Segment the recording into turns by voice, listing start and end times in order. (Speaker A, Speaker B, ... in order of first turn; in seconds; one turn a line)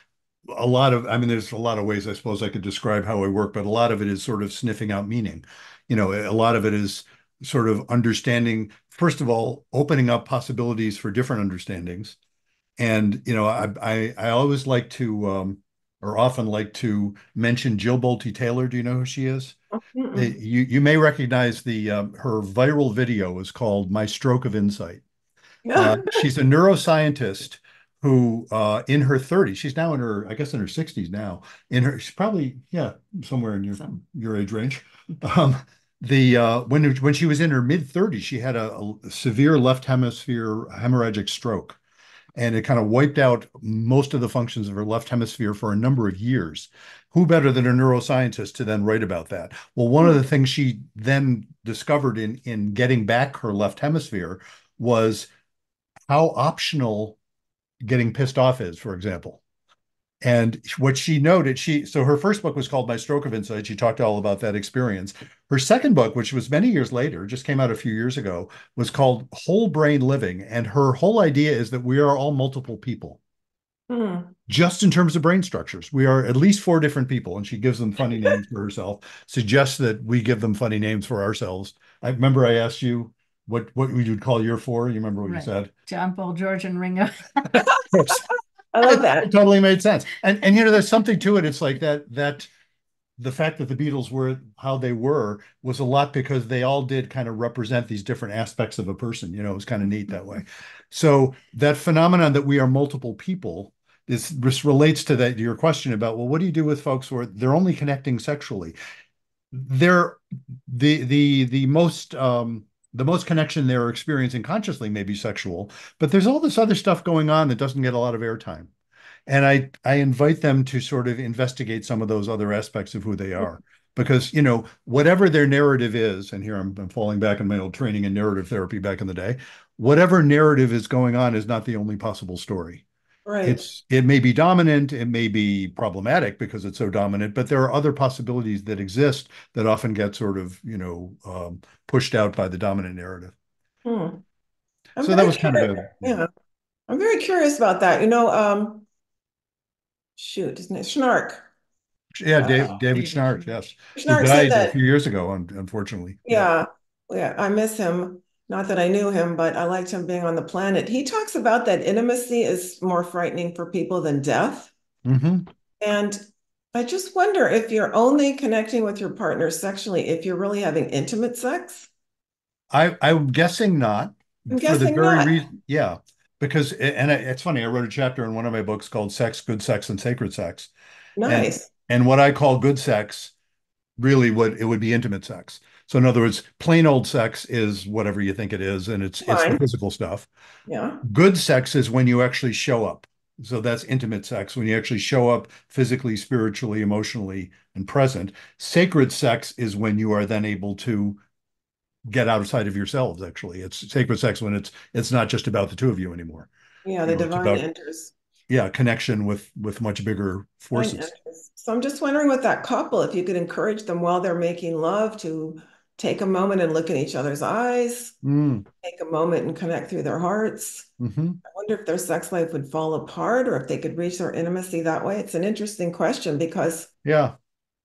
Speaker A: 0.5-12.2
Speaker A: 12.8-19.6
Speaker B: 19.9-20.4
Speaker A: 20.1-25.0
Speaker B: 25.6-26.2
Speaker A: 25.8-41.8
Speaker A: 42.4-55.3
Speaker A: 56.1-57.2
Speaker A: 57.8-59.4
Speaker A: 60.2-73.2
Speaker B: 73.9-74.4
Speaker A: 74.5-85.7
Speaker C: 85.3-87.7
Speaker B: 87.8-88.2
Speaker A: 87.9-88.2
Speaker B: 88.7-89.3
Speaker A: 88.8-92.5
Speaker A: 93.2-108.8
Speaker A: 109.5-118.7
Speaker A: 119.3-132.8
Speaker B: 133.3-133.7
Speaker A: 133.4-143.3
Speaker B: 143.8-144.2
Speaker B: 145.0-146.3
Speaker A: 145.0-146.2
Speaker B: 146.9-148.9
Speaker B: 150.2-151.4
Speaker A: 152.2-156.5
Speaker B: 152.4-152.8
Speaker C: 152.9-153.4
Speaker B: 153.9-154.7
Speaker B: 156.2-164.7
Speaker A: 165.1-165.5
Speaker B: 165.8-166.2
Speaker B: 166.7-171.9
Speaker A: 172.7-180.7
Speaker B: 174.5-175.3
Speaker B: 181.2-181.7
Speaker A: 181.3-183.3
Speaker A: 184.0-190.3
Speaker B: 189.2-189.6
Speaker B: 190.7-191.0
Speaker A: 191.0-201.2
Speaker A: 202.1-206.5
Speaker B: 206.8-208.1
Speaker A: 207.1-207.6
Speaker A: 208.5-211.1
Speaker B: 210.7-218.2
Speaker A: 218.2-218.7
Speaker B: 218.8-220.9
Speaker A: 221.0-221.4
Speaker B: 221.5-226.9
Speaker A: 227.0-227.4